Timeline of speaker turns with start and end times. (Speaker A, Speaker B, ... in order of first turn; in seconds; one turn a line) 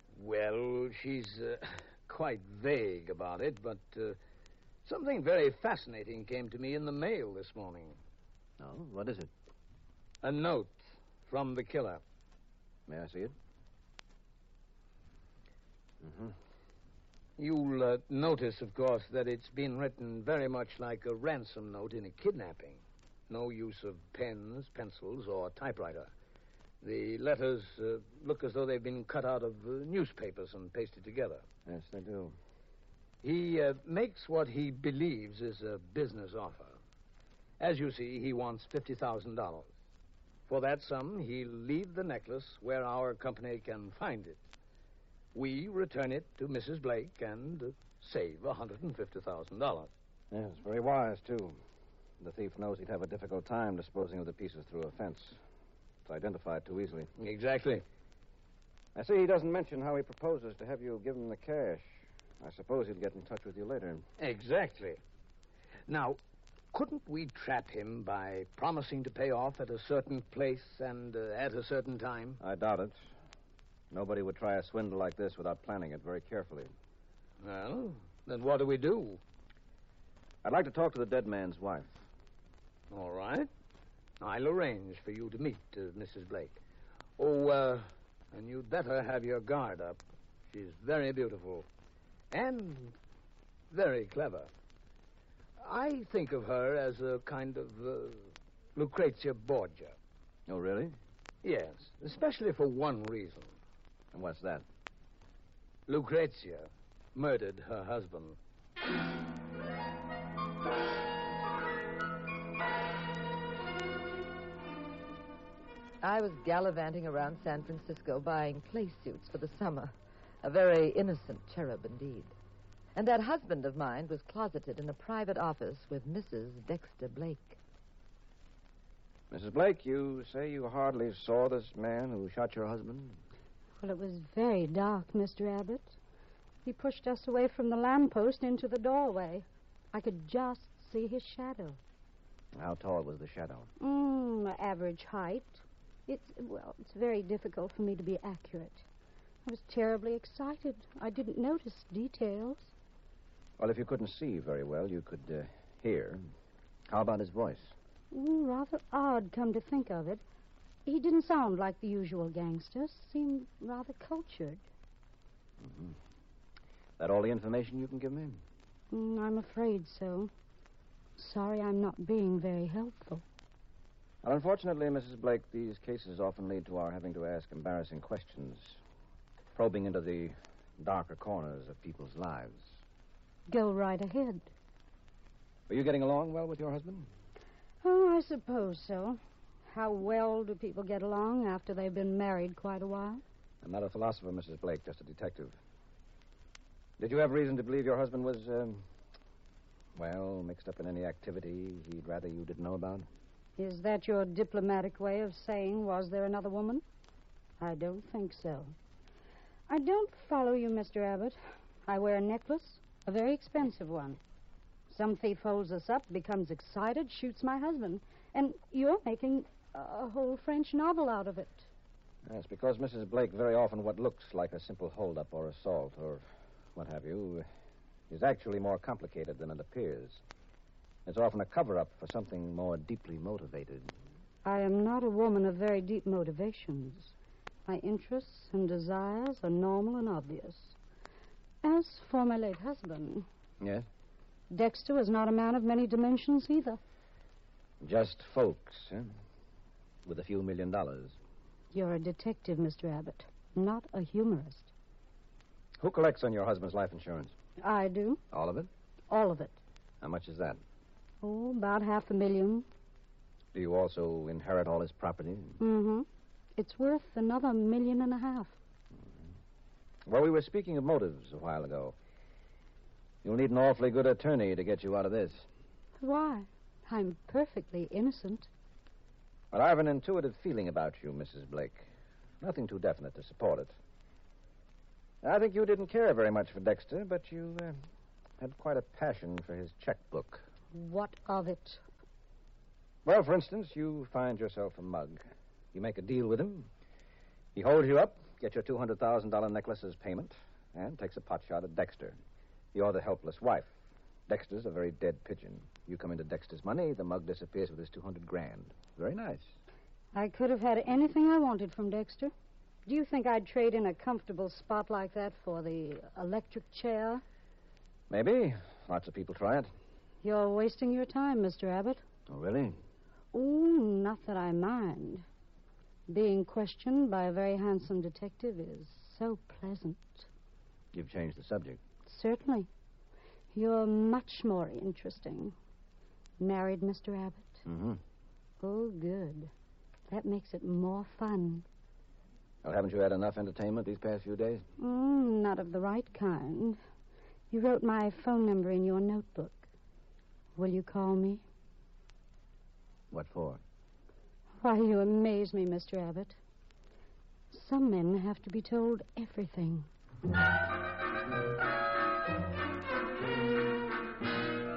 Speaker A: 0.1-4.2
Speaker A: 4.8-8.0
Speaker B: 8.6-9.3
Speaker A: 10.2-12.0
Speaker B: 12.9-13.3
Speaker B: 16.0-16.4
Speaker A: 17.4-26.1
Speaker A: 26.8-31.4
Speaker B: 31.6-32.4
Speaker A: 33.2-36.8
Speaker A: 37.6-39.7
Speaker A: 40.5-44.4
Speaker A: 45.3-49.9
Speaker B: 50.3-51.6
Speaker B: 52.2-55.4
Speaker B: 56.0-57.1
Speaker A: 57.2-57.8
Speaker B: 58.9-61.9
Speaker B: 62.4-64.0
Speaker A: 64.2-65.0
Speaker A: 65.9-66.2
Speaker A: 66.7-72.4
Speaker B: 72.4-73.0
Speaker B: 73.9-76.7
Speaker A: 77.4-79.2
Speaker B: 80.4-81.9
Speaker A: 82.9-83.5
Speaker A: 84.2-86.6
Speaker A: 87.2-90.0
Speaker A: 90.5-91.7
Speaker A: 92.3-93.0
Speaker A: 93.7-94.5
Speaker A: 95.6-99.9
Speaker B: 100.5-101.0
Speaker A: 101.4-103.5
Speaker B: 104.1-104.6
Speaker A: 105.9-108.4
Speaker C: 116.0-122.3
Speaker C: 122.9-127.6
Speaker B: 129.3-133.2
Speaker D: 133.8-135.9
Speaker D: 136.6-141.8
Speaker B: 142.5-143.7
Speaker D: 143.8-148.8
Speaker D: 149.4-152.7
Speaker B: 153.6-156.2
Speaker B: 156.9-157.7
Speaker D: 158.1-160.2
Speaker D: 160.8-164.6
Speaker B: 165.6-166.0
Speaker B: 167.0-168.4
Speaker D: 168.9-170.3
Speaker D: 171.2-173.2
Speaker B: 174.2-178.8
Speaker B: 179.5-182.7
Speaker D: 183.5-184.5
Speaker B: 185.7-187.1
Speaker D: 187.8-193.2
Speaker B: 193.6-195.6
Speaker B: 197.0-198.8
Speaker B: 199.9-203.1
Speaker D: 203.6-206.8
Speaker D: 207.6-208.7
Speaker D: 209.7-214.2
Speaker D: 214.9-221.6
Speaker B: 222.2-227.4
Speaker B: 228.1-230.2
Speaker B: 231.1-233.9
Speaker D: 234.4-237.1
Speaker D: 237.7-240.7
Speaker D: 241.6-243.3
Speaker B: 243.6-243.9
Speaker D: 244.5-246.8
Speaker B: 247.8-249.1
Speaker B: 250.0-251.2
Speaker D: 251.7-254.7
Speaker B: 255.8-257.3
Speaker D: 257.6-258.2
Speaker B: 258.3-258.7
Speaker D: 259.1-259.6
Speaker B: 260.0-260.6
Speaker D: 261.2-262.6
Speaker B: 263.5-265.6
Speaker D: 265.6-266.1
Speaker D: 266.6-268.5
Speaker B: 270.1-271.9
Speaker B: 273.2-275.4
Speaker D: 276.0-278.5
Speaker B: 279.5-281.9
Speaker B: 282.4-283.7
Speaker B: 285.2-287.8
Speaker B: 288.4-290.4
Speaker D: 290.7-291.8
Speaker B: 293.0-296.7
Speaker B: 297.5-302.2
Speaker B: 302.7-303.7
Speaker B: 304.3-309.5
Speaker D: 310.1-312.3
Speaker D: 312.9-317.2
Speaker B: 318.1-319.7
Speaker D: 320.2-322.0
Speaker B: 322.3-322.8
Speaker D: 323.3-325.2
Speaker D: 326.1-330.3
Speaker B: 330.9-331.8
Speaker D: 332.1-332.7
Speaker D: 333.5-335.5
Speaker D: 336.4-337.6
Speaker B: 337.6-338.0
Speaker D: 338.6-339.5
Speaker D: 340.1-341.6
Speaker B: 342.6-344.6
Speaker D: 344.8-346.8
Speaker D: 347.5-349.6
Speaker D: 350.6-351.4
Speaker B: 353.1-353.6
Speaker D: 354.6-356.4
Speaker D: 357.5-359.9